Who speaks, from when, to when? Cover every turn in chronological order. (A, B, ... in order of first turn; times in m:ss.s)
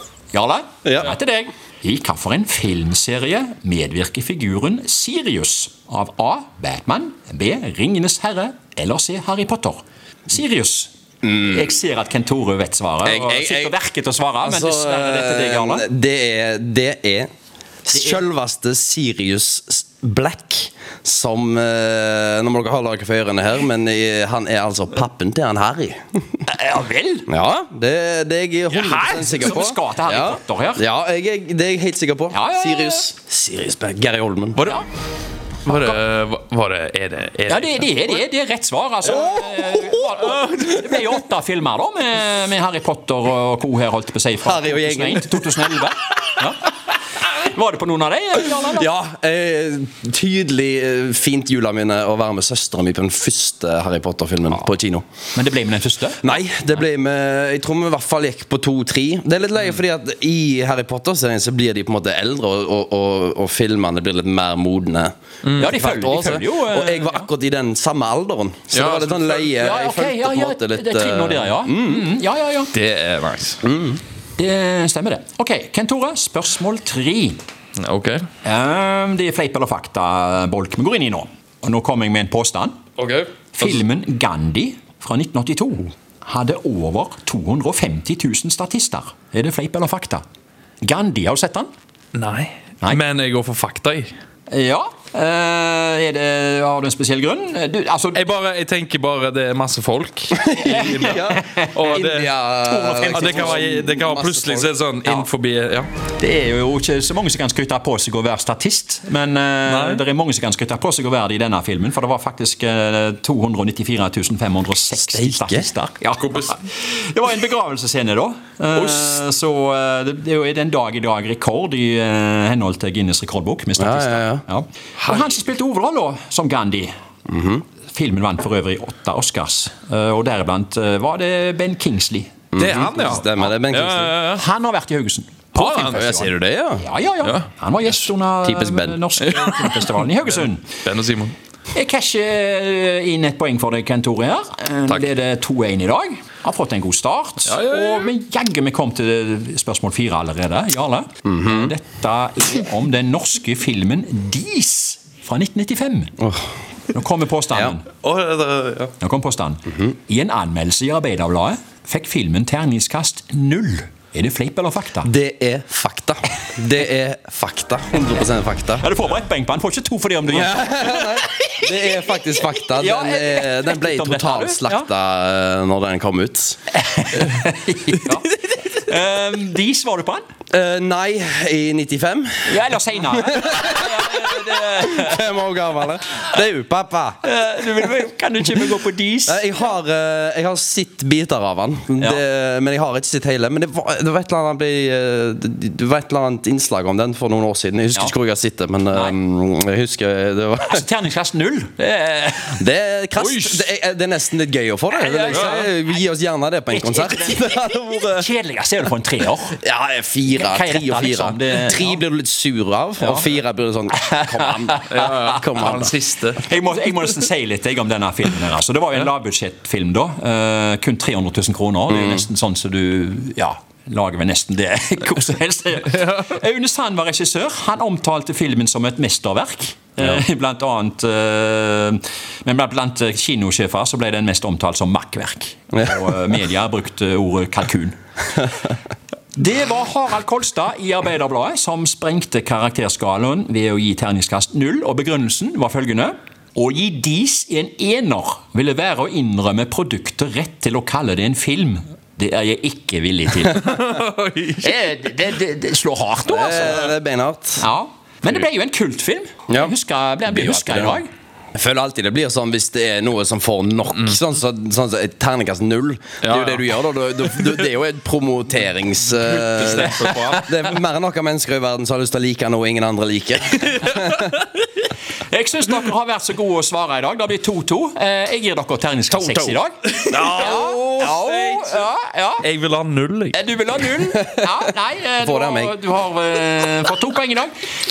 0:00.3-0:15.9 A
0:00.8-0:01.1 B
0:13.0-0:13.8 B
0:14.4-0:17.3 B
0:17.8-0:26.2 B
0:17.9-0:18.2 A
0:26.5-0:27.3 A
0:27.3-0:34.7 B
0:28.7-0:29.4 C
0:29.3-0:30.8 A
0:32.3-0:33.1 A
0:34.5-0:34.8 C
0:35.6-0:36.0 A
0:35.6-0:38.1 C
0:37.5-0:46.7 A
0:39.4-0:39.8 B
0:44.4-0:45.4 B
0:47.2-0:48.9 A
0:48.7-0:55.0 B
0:55.3-0:56.2 A
0:56.2-1:12.1 B
1:05.4-1:05.8 C
1:05.6-1:07.3 A
1:08.7-1:09.5 C
1:09.5-1:12.7 A
1:12.7-1:13.6 C
1:13.6-1:14.0 B
1:14.4-1:17.4 A
1:17.8-1:18.2 C
1:18.4-1:22.8 A
1:23.0-1:23.8 C
1:23.5-1:30.2 A
1:30.8-1:31.7 A
1:32.1-1:34.1 C
1:34.5-1:38.2 A
1:38.1-1:42.3 C
1:40.4-1:45.3 B
1:40.6-1:42.0 A
1:42.6-1:43.6 A
1:43.1-1:45.9 C
1:46.2-2:06.9 A
1:49.6-1:50.0 C
1:54.9-1:55.7 B
2:03.8-2:04.4 B
2:07.3-2:07.6 B
2:07.9-2:12.4 A
2:12.5-2:14.2 B
2:12.5-2:14.4 C
2:14.3-2:16.2 A
2:15.5-2:16.3 C
2:15.8-2:16.8 B
2:16.8-2:20.7 A
2:18.4-2:19.0 B
2:19.2-2:19.9 C
2:20.7-2:21.3 C
2:21.7-2:36.1 A
2:27.5-2:28.1 C
2:31.2-2:31.7 B
2:36.2-2:36.5 B
2:36.9-2:37.8 A
2:38.0-2:38.9 C
2:39.0-2:45.1 A
2:45.0-2:48.9 B
2:48.8-2:51.5 A
2:50.3-2:56.6 B
2:52.8-2:54.9 A
2:56.7-3:00.2 A
3:00.5-3:02.6 B
3:02.4-3:05.2 A
3:03.1-3:07.2 B
3:07.2-3:09.7 A
3:09.3-3:20.8 B
3:20.6-3:23.7 A
3:22.6-3:28.3 B
3:24.9-3:26.0 A
3:25.3-3:25.6 C
3:26.7-3:29.6 A
3:29.6-3:35.9 B
3:30.3-3:32.0 A
3:33.0-3:33.3 A
3:33.9-3:35.8 A
3:34.9-3:36.4 C
3:36.3-3:58.0 A
3:41.9-3:42.2 B
3:59.3-4:13.9 A
4:13.6-4:14.7 C
4:14.5-4:16.9 A
4:16.3-4:17.6 B
4:17.6-4:21.1 A
4:19.5-4:21.0 B
4:21.5-4:34.3 B
4:26.2-4:27.7 C
4:29.2-4:30.6 C
4:30.0-4:30.4 A
4:35.3-4:42.5 A
4:39.9-4:41.8 C
4:40.1-4:41.0 B
4:42.4-4:43.4 C
4:43.3-4:47.5 A
4:44.0-4:44.4 B
4:45.2-4:45.8 B